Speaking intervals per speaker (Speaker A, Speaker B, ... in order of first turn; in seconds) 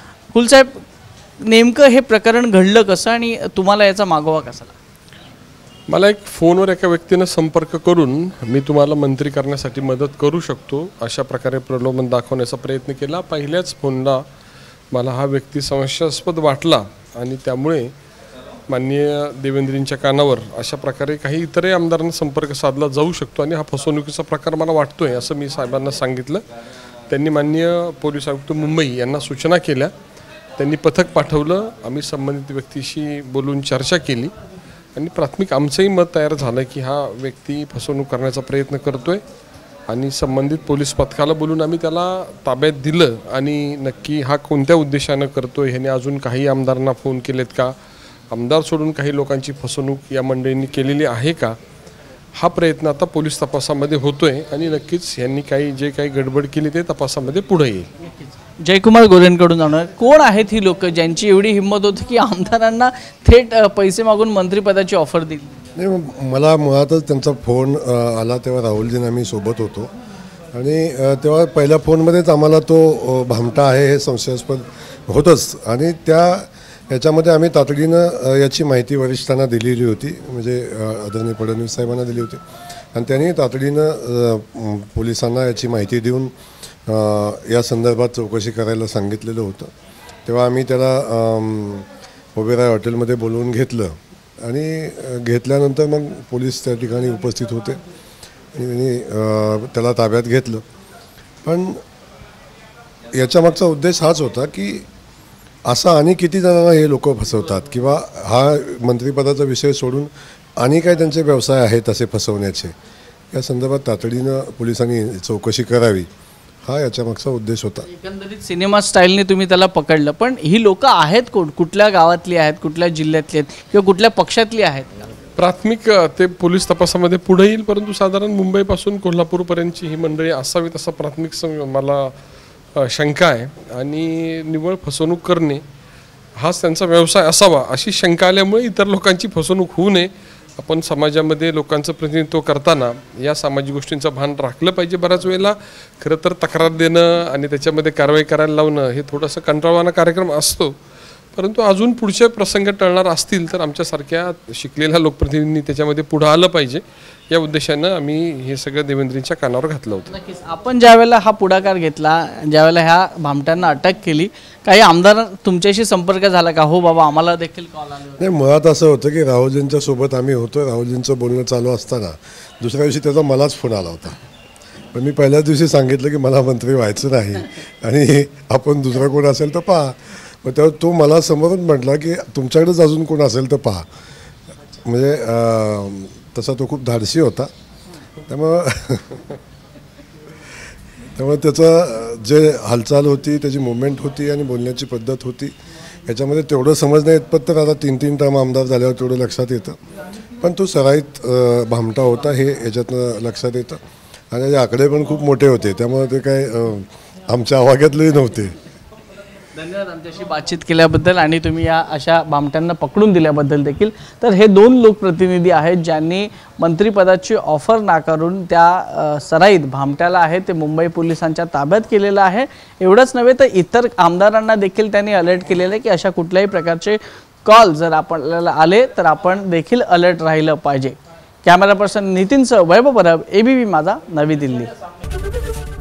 Speaker A: 0.3-0.8, 1.4-4.8, 58.1-65.5, 117.9-125.1, 160.1-168.2, 209.6-234.7
Speaker B: 5.9-14.2, 14.9-17.9, 18.7-26.4, 27.1-29.9, 30.6-34.3, 35.0-39.2, 39.9-47.7, 48.3-51.6, 52.4-57.9, 125.4-132.1, 132.8-135.6, 136.4-150.7, 151.3-160.1
Speaker C: 65.8-69.9, 70.5-82.4, 82.9-86.3, 86.9-89.7, 90.3-97.8, 98.5-100.6, 101.4-101.8, 103.1-104.8, 105.7-112.7, 113.3-116.1, 116.7-117.9, 168.2-174.2, 174.9-183.9, 184.8-187.5, 188.3-189.4, 191.2-195.5, 196.1-199.8, 200.4-203.8, 204.3-208.5